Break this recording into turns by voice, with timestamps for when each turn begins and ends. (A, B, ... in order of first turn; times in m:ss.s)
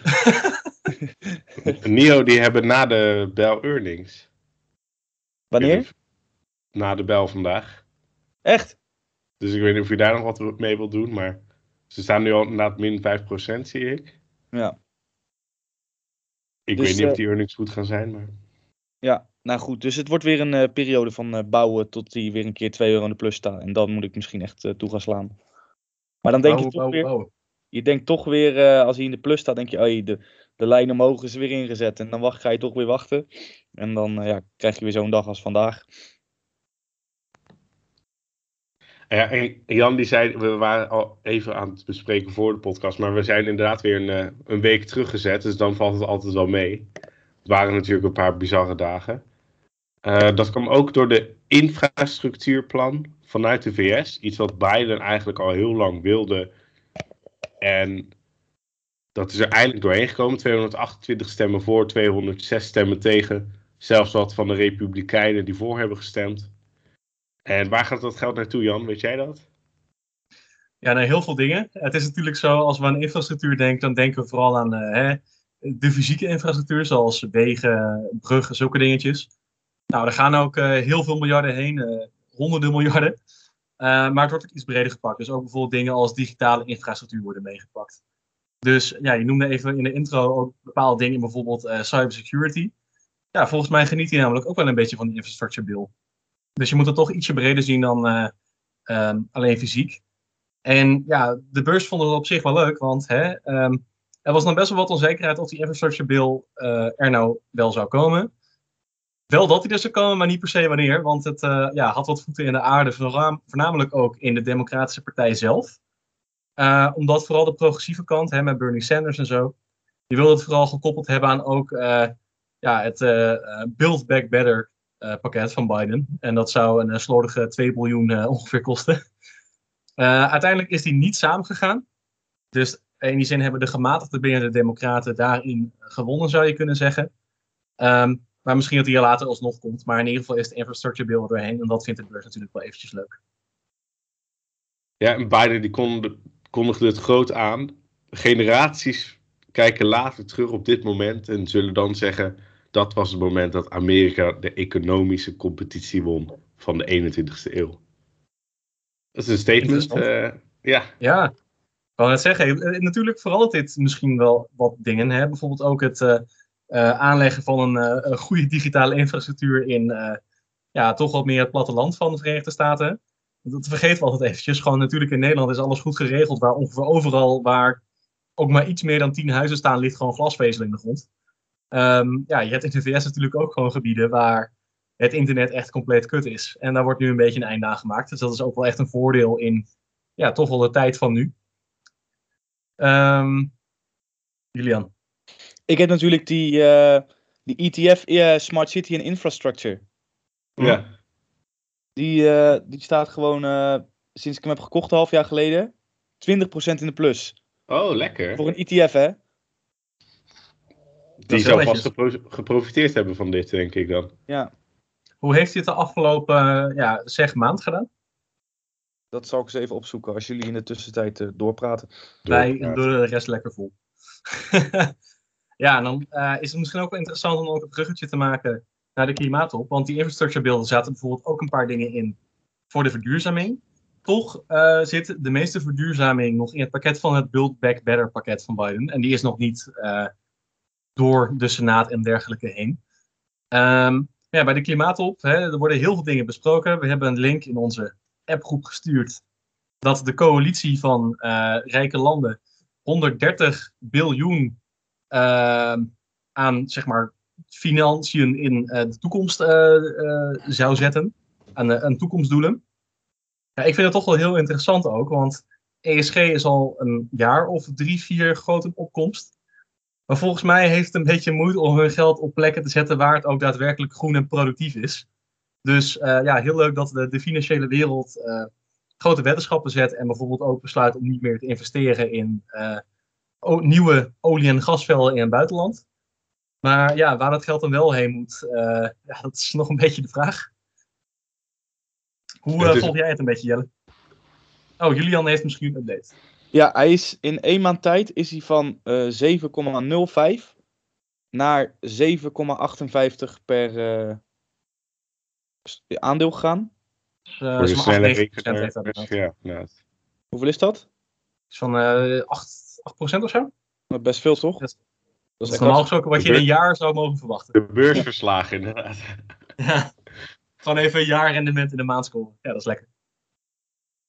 0:00.2-0:00.5 A
0:01.6-0:04.3 B
0:05.5-0:05.9 C
0:05.6-0:05.9 B
0:06.7-0:07.8 B
0:08.4-0:08.8 C
0:09.4-0:14.2 B
0:16.7-0:18.3 B
0:16.8-0:17.2 C
0:19.0-0:25.3 C
0:26.2-0:27.1 C
0:26.4-0:27.3 A
0:27.7-0:35.8 C
0:39.1-0:46.9 B
0:47.4-0:49.2 B
0:50.0-0:56.5 B
0:57.6-0:58.1 B
0:59.1-1:06.5 B
1:07.4-1:09.4 B
1:10.8-1:19.3 A
1:19.9-1:23.2 A
1:23.8-1:28.0 A
1:28.6-1:32.7 A
1:33.3-1:35.9 A
1:36.6-1:38.3 A
1:38.9-1:40.0 A
1:40.6-1:48.3 A
1:49.3-1:55.8 A
1:56.6-1:59.5 A
2:00.1-2:09.0 A
2:10.0-2:11.8 A
2:12.5-2:17.1 A
2:17.8-2:23.2 A
2:25.0-2:37.8 B
2:39.2-2:40.9 B
2:39.6-2:40.0 A
2:41.0-2:41.3 A
2:42.0-2:50.2 A
2:50.7-2:57.8 A
2:58.4-3:01.0 A
3:01.7-3:09.6 A
3:10.2-3:11.3 A
3:12.8-3:13.5 A
3:14.5-3:14.9 A
3:15.7-3:19.8 C
3:20.6-3:20.9 B
3:22.0-3:27.4 C
3:27.7-3:28.4 B
3:28.4-3:29.2 C
3:31.2-3:34.1 B
3:31.3-3:31.9 A
3:35.2-3:37.9 A
3:39.1-3:41.9 C
3:42.2-3:42.8 B
3:42.3-3:43.7 A
3:44.3-3:44.9 A
3:45.6-3:52.2 A
3:52.7-4:00.1 A
4:01.0-4:02.8 A
4:03.5-4:09.2 A
4:09.8-4:14.6 A
4:15.1-4:22.6 A
4:23.6-4:29.3 A
4:30.1-4:35.0 A
4:35.6-4:42.8 A
4:43.4-4:45.8 A
4:46.6-4:50.5 A
4:52.4-4:53.7 A
4:52.6-4:52.9 B
4:54.8-4:56.1 A
4:56.5-5:00.5 C
5:01.3-5:04.2 C
5:05.6-5:06.7 C
5:07.4-5:09.1 A
5:07.6-5:09.7 B
5:10.3-5:10.8 C
5:11.5-5:13.5 A
5:13.9-5:14.6 C
5:14.4-5:14.7 A
5:15.4-5:15.8 C
5:15.5-5:17.5 A
5:16.2-5:16.4 B
5:17.5-5:19.2 B
5:19.6-5:19.9 A
5:20.6-5:22.8 A